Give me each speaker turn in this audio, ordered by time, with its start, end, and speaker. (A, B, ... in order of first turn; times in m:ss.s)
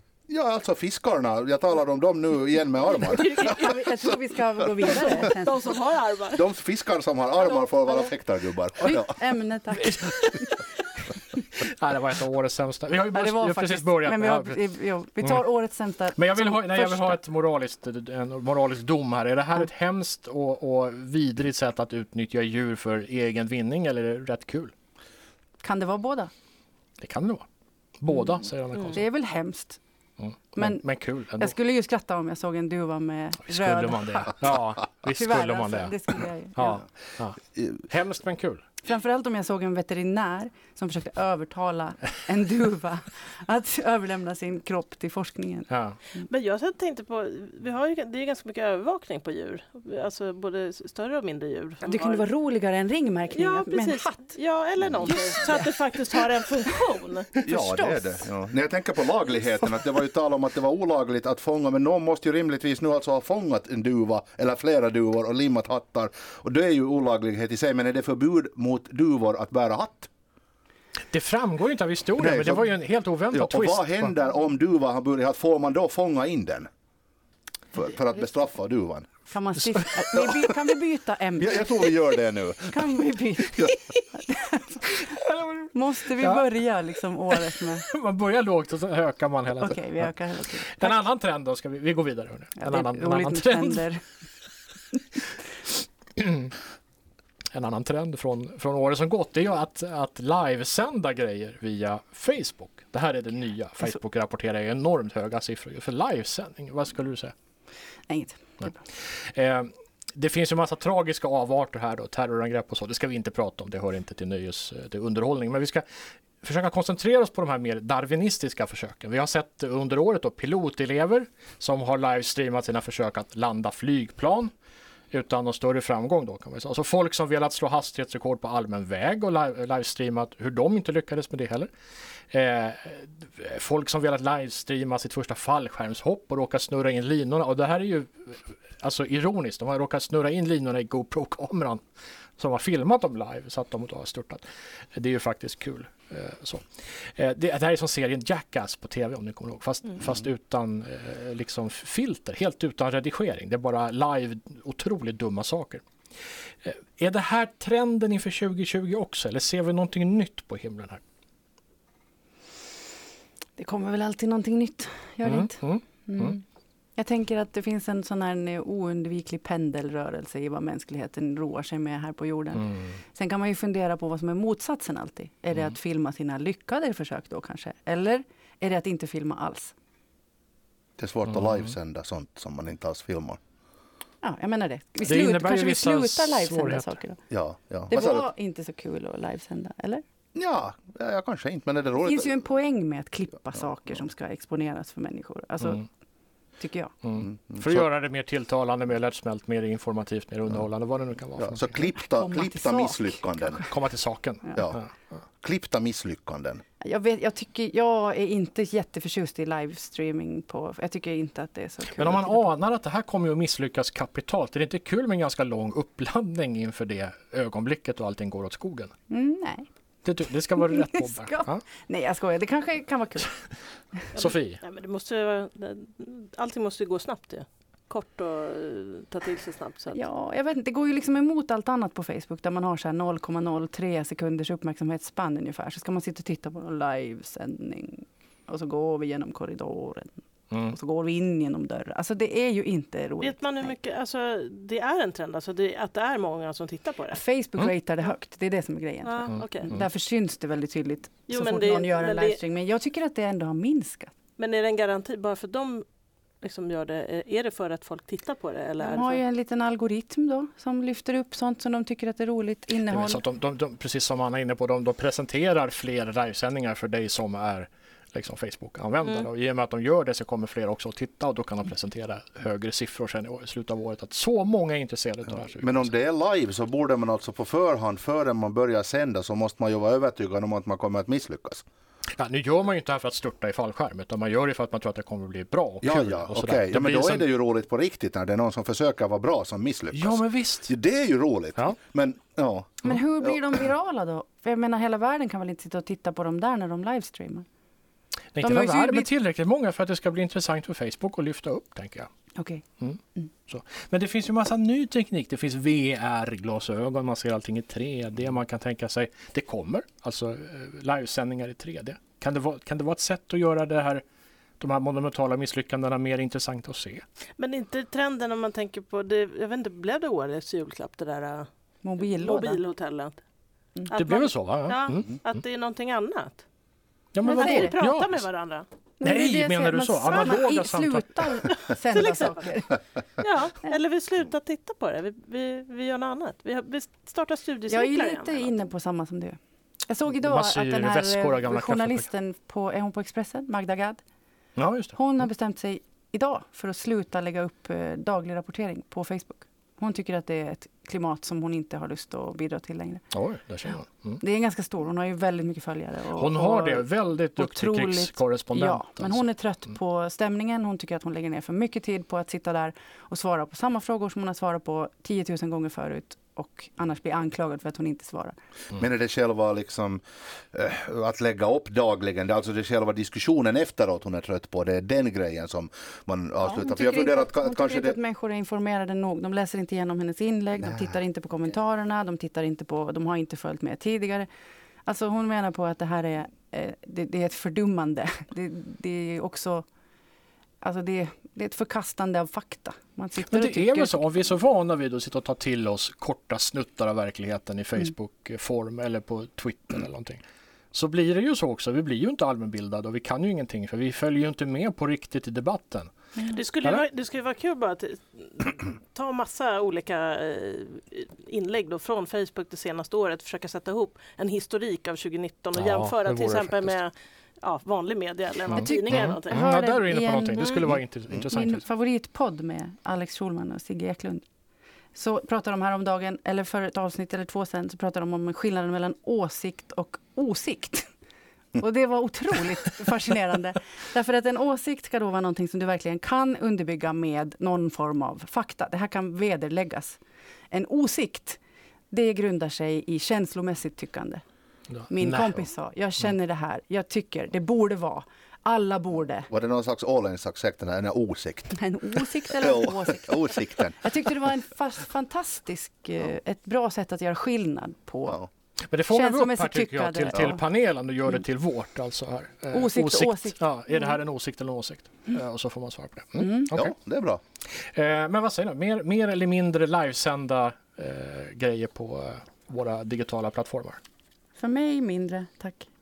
0:00.3-0:03.5 A
0:03.0-0:03.8 B
0:03.2-0:05.7 C
0:04.9-0:06.5 B
0:06.3-0:09.2 A
0:07.5-0:08.1 B
0:08.8-0:10.1 C
0:09.8-0:10.6 D
0:11.4-0:14.6 D
0:13.1-0:17.2 C
0:16.2-0:24.7 D
0:25.6-0:26.3 C
0:27.0-0:27.5 D
0:28.0-0:29.0 D
0:28.9-0:29.8 C
0:30.2-0:31.6 D
0:30.6-0:34.4 C
0:33.4-0:36.0 D
0:35.1-0:36.8 C
0:36.6-0:38.6 D
0:38.8-0:45.7 C
0:45.7-0:46.0 D
0:46.3-0:52.2 B
0:51.8-0:54.4 C
0:53.3-0:57.3 B
0:55.1-0:55.7 C
0:57.4-0:58.3 C
0:57.4-1:10.1 A
1:11.1-1:14.1 D
1:12.2-1:12.7 A
1:13.3-1:16.7 A
1:17.7-1:19.1 A
1:19.3-1:22.0 C
1:21.4-1:23.0 A
1:22.7-1:25.0 C
1:25.0-1:26.4 D
1:25.7-1:27.9 C
1:27.6-1:30.1 D
1:29.6-1:31.0 C
1:30.7-1:33.9 D
1:32.6-1:34.0 C
1:36.2-1:36.6 D
1:37.5-1:47.3 D
1:48.1-1:48.8 C
1:49.3-1:55.8 D
1:56.4-2:04.5 D
2:05.1-2:11.7 D
2:12.3-2:21.8 D
2:22.4-2:24.4 D
2:25.0-2:35.8 D
2:36.6-2:41.0 D
2:43.6-2:46.4 C
2:45.2-2:46.4 D
2:47.0-2:59.7 C
3:01.0-3:03.4 A
3:04.2-3:07.2 C
3:05.0-3:07.0 D
3:07.3-3:08.3 A
3:07.9-3:10.0 C
3:10.4-3:12.4 A
3:12.0-3:15.8 C
3:16.6-3:16.9 C
3:17.0-3:21.8 D
3:17.2-3:17.9 A
3:21.4-3:23.6 A
3:22.0-3:23.7 C
3:23.7-3:24.9 D
3:24.6-3:24.8 A
3:25.4-3:26.6 A
3:26.8-3:32.5 C
3:31.9-3:38.9 D
3:39.1-3:39.7 C
3:40.0-3:41.6 D
3:40.5-3:43.4 C
3:44.2-3:50.0 B
3:44.2-3:44.6 D
3:49.9-4:03.8 C
4:00.5-4:00.8 D
4:03.2-4:07.2 B
4:07.1-4:14.1 C
4:09.0-4:09.8 B
4:09.4-4:09.8 D
4:11.3-4:12.4 B
4:14.4-4:15.8 B
4:16.4-4:19.2 B
4:18.8-4:23.2 C
4:22.9-4:35.9 D
4:35.5-4:41.6 A
4:42.2-4:47.3 D
4:45.8-4:53.4 A
4:49.9-4:50.8 D
4:52.8-4:57.5 C
4:58.4-5:02.1 D
4:58.4-4:59.1 C
5:02.4-5:02.6 C
5:02.8-5:14.0 D
5:14.6-5:17.0 D
5:17.4-5:21.5 B
5:21.8-5:22.6 C
5:22.0-5:23.2 B
5:23.9-5:26.4 B
5:23.9-5:25.2 D
5:27.1-5:28.2 D
5:27.2-5:27.8 C
5:27.4-5:28.7 B
5:29.0-5:32.8 C
5:29.0-5:31.5 D
5:30.1-5:30.4 B
5:31.9-5:32.5 B
5:33.2-5:38.5 B
5:37.7-5:39.4 C
5:39.9-5:44.0 C
5:40.2-5:42.0 D
5:44.6-5:45.0 D
5:45.0-5:53.0 C
5:53.1-5:54.2 D
5:54.2-6:08.4 C
5:56.2-5:59.2 D
6:08.7-6:10.0 A
6:10.5-6:18.0 A
6:16.4-6:24.3 C
6:20.6-6:20.9 A
6:24.8-6:29.7 C
6:30.6-6:34.0 C
6:33.3-6:40.2 D
6:40.7-6:45.9 D
6:46.2-6:46.4 C
6:46.3-6:59.4 B
6:55.6-6:56.8 D
6:58.5-7:00.8 C
6:58.5-7:01.6 D
7:01.3-7:04.2 C
7:05.0-7:10.9 C
7:11.6-7:20.0 C
7:20.5-7:21.4 C
7:21.9-7:24.2 C
7:24.7-7:25.4 D
7:24.9-7:29.3 C
7:29.3-7:31.7 A
7:31.5-7:38.2 C
7:32.4-7:33.8 A
7:38.7-7:46.7 D
7:38.9-7:40.4 C
7:42.5-7:44.0 C
7:46.2-7:46.5 C
7:46.5-7:47.2 A
7:47.7-7:53.8 D
7:54.4-7:55.7 C